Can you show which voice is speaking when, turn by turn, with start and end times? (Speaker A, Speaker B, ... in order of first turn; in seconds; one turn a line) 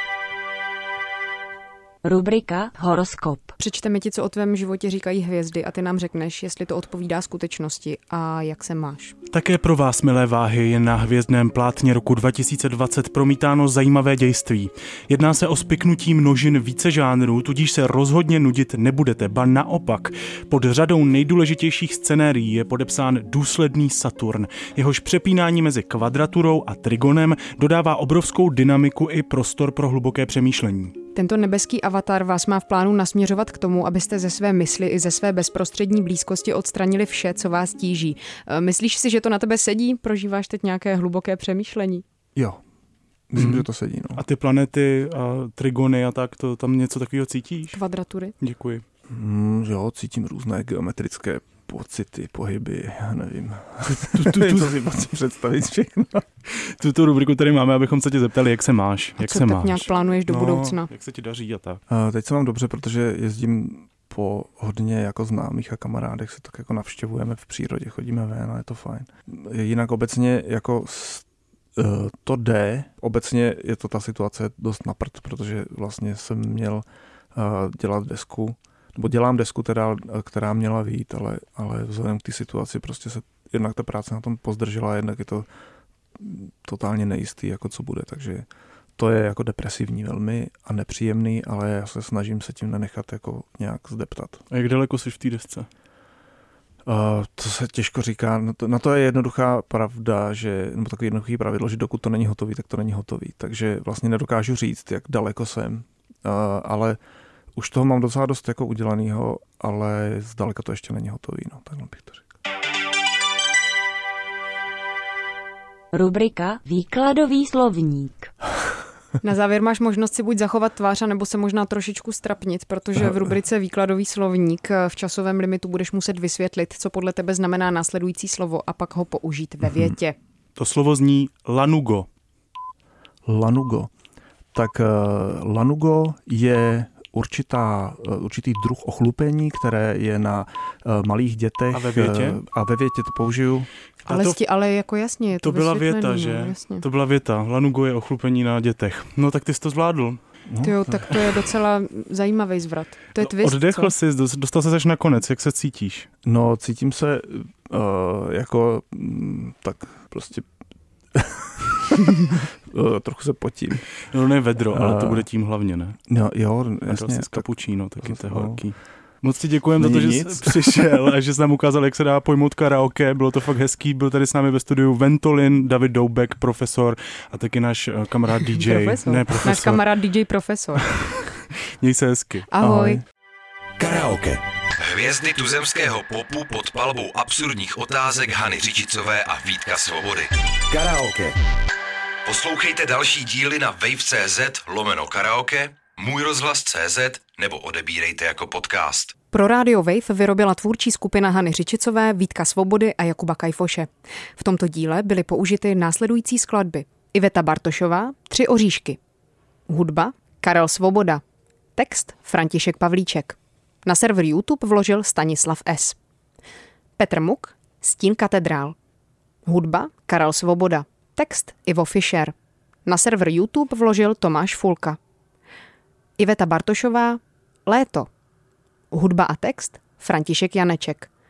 Speaker A: 2.0-3.5
Speaker B: 3.6-9.1
Speaker C: 9.3-31.0
Speaker B: 31.1-42.0
Speaker D: 43.3-44.2
Speaker C: 43.4-47.8
Speaker B: 47.7-48.3
Speaker C: 48.4-48.8
Speaker D: 49.1-56.2
Speaker C: 53.9-54.7
Speaker C: 56.5-61.8
Speaker B: 59.2-60.9
Speaker D: 61.9-71.2
Speaker D: 71.8-85.5
Speaker D: 86.2-94.4
Speaker C: 94.5-95.7
Speaker D: 96.8-107.0
Speaker D: 107.5-112.3
Speaker A: 115.9-118.3
Speaker B: 119.2-130.2
Speaker C: 130.6-132.1
Speaker D: 133.3-133.9
Speaker D: 134.5-143.7
Speaker C: 141.7-142.4
Speaker B: 144.1-146.8
Speaker C: 144.1-144.4
Speaker C: 145.4-150.2
Speaker D: 150.5-151.1
Speaker B: 150.6-153.9
Speaker C: 153.2-156.1
Speaker D: 156.2-160.4
Speaker D: 161.1-163.9
Speaker C: 164.1-166.0
Speaker D: 164.7-165.3
Speaker D: 166.1-168.6
Speaker C: 166.9-179.8
Speaker D: 169.8-170.9
Speaker B: 178.4-180.9
Speaker C: 181.0-182.5
Speaker B: 182.5-183.0
Speaker D: 182.6-183.0
Speaker E: 183.8-191.3
Speaker E: 192.2-199.1
Speaker B: 199.3-209.0
Speaker B: 209.7-211.2
Speaker B: 211.8-216.0
Speaker B: 217.0-218.8
Speaker B: 219.4-222.3
Speaker B: 222.8-225.0
Speaker B: 226.2-228.1
Speaker B: 228.9-231.1